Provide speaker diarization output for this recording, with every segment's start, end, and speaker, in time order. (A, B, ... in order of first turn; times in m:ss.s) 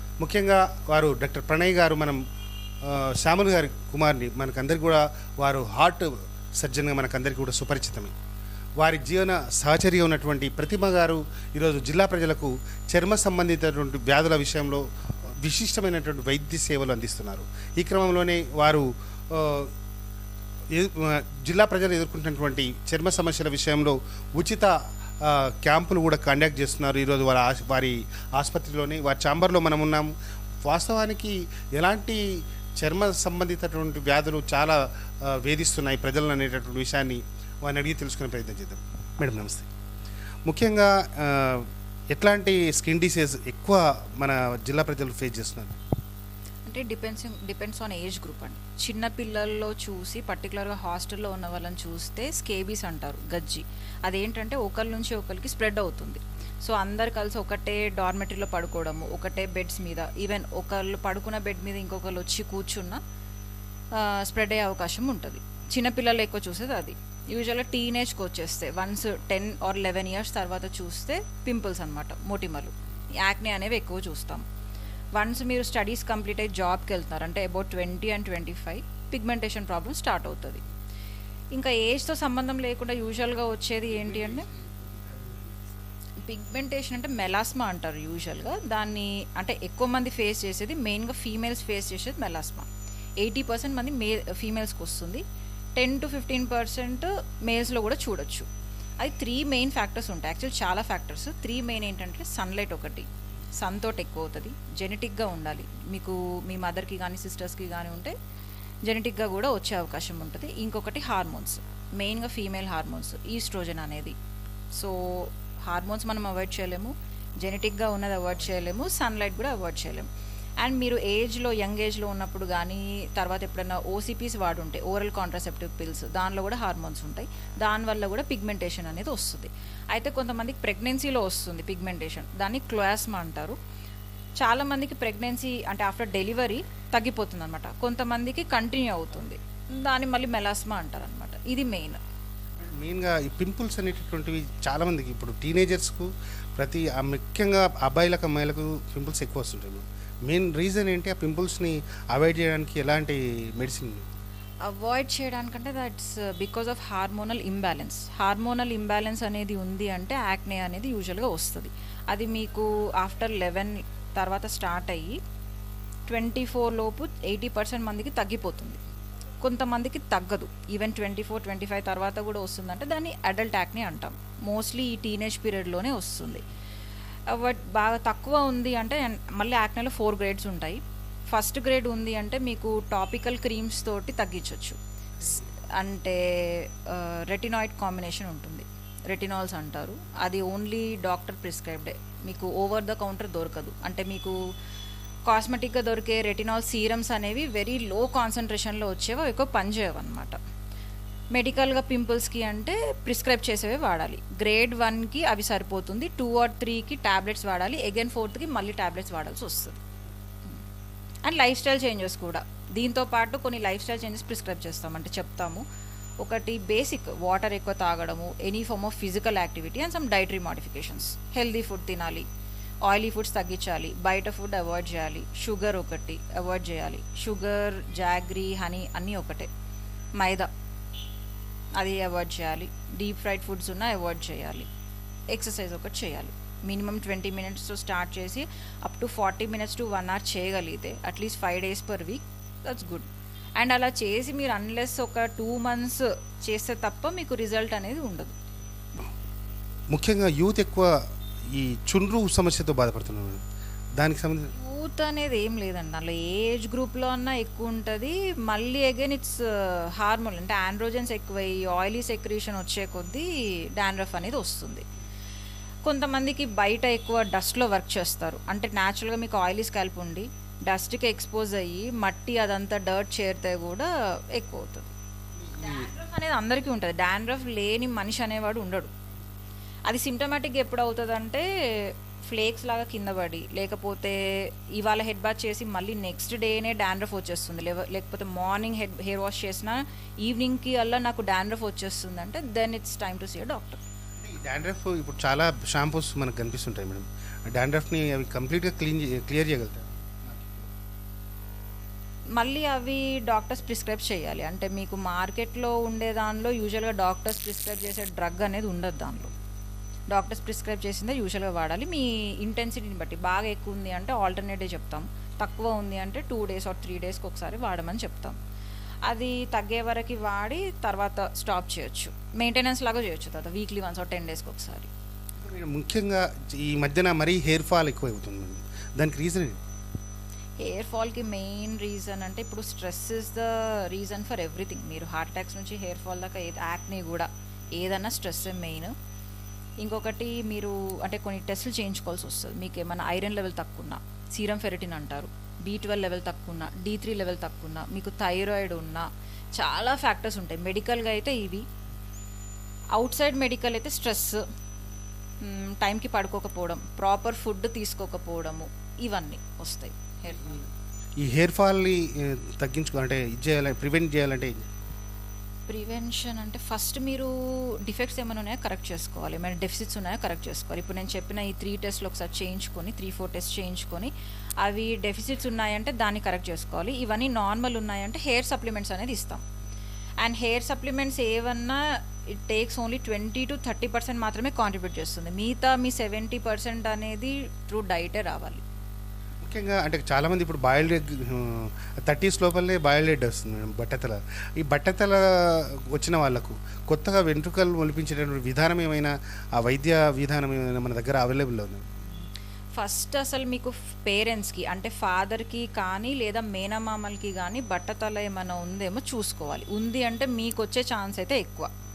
0:00.2-0:02.2 A
0:02.8-0:08.1 A
0:08.8-0:14.8 A
0:15.4-0:19.7 A
0:20.7-0:30.1 A
0:30.6-0:32.2 A
0:32.8-0:39.7 A
0:40.5-0:45.8 A
0:46.6-1:03.0 B
1:03.9-1:14.4 B
1:15.1-1:20.6 B
1:21.5-1:24.5 B
1:23.9-1:25.8 A
1:26.3-1:32.7 B
1:33.2-1:35.2 B
1:35.8-1:38.5 B
1:39.0-1:43.1 B
1:43.6-1:48.2 B
1:48.9-1:54.2 B
1:54.7-2:00.1 B
2:00.6-2:13.6 B
2:14.4-2:22.0 B
2:22.6-2:34.1 A
2:34.6-2:45.2 B
2:46.1-2:48.8 B
2:49.4-2:56.4 B
2:57.3-3:00.8 B
3:01.3-3:04.8 B
3:05.8-3:14.4 B
3:15.3-3:20.4 B
3:21.3-3:29.8 B
3:31.2-3:35.6 B
3:36.2-3:42.3 B
3:42.8-3:49.5 B
3:50.2-3:50.5 B
3:51.8-3:54.7 B
3:55.3-4:08.3 B
4:09.9-4:10.9 A
4:11.5-4:13.4 A
4:14.0-4:14.5 A
4:14.5-4:24.8 B
4:25.8-4:34.9 B
4:35.4-4:35.9 A
4:35.6-4:38.9 B
4:39.9-4:53.8 B
4:54.2-5:00.7 A
5:02.4-5:09.3 B
5:10.1-5:18.4 B
5:19.1-5:24.9 B
5:25.4-5:29.6 A
5:30.6-5:38.9 B
5:39.8-5:51.6 B
5:52.9-5:54.4 B
5:55.4-6:00.6 B
6:01.2-6:04.7 A
6:05.7-6:19.4 B
6:20.2-6:28.6 B
6:29.4-6:41.8 A
6:42.8-6:51.7 B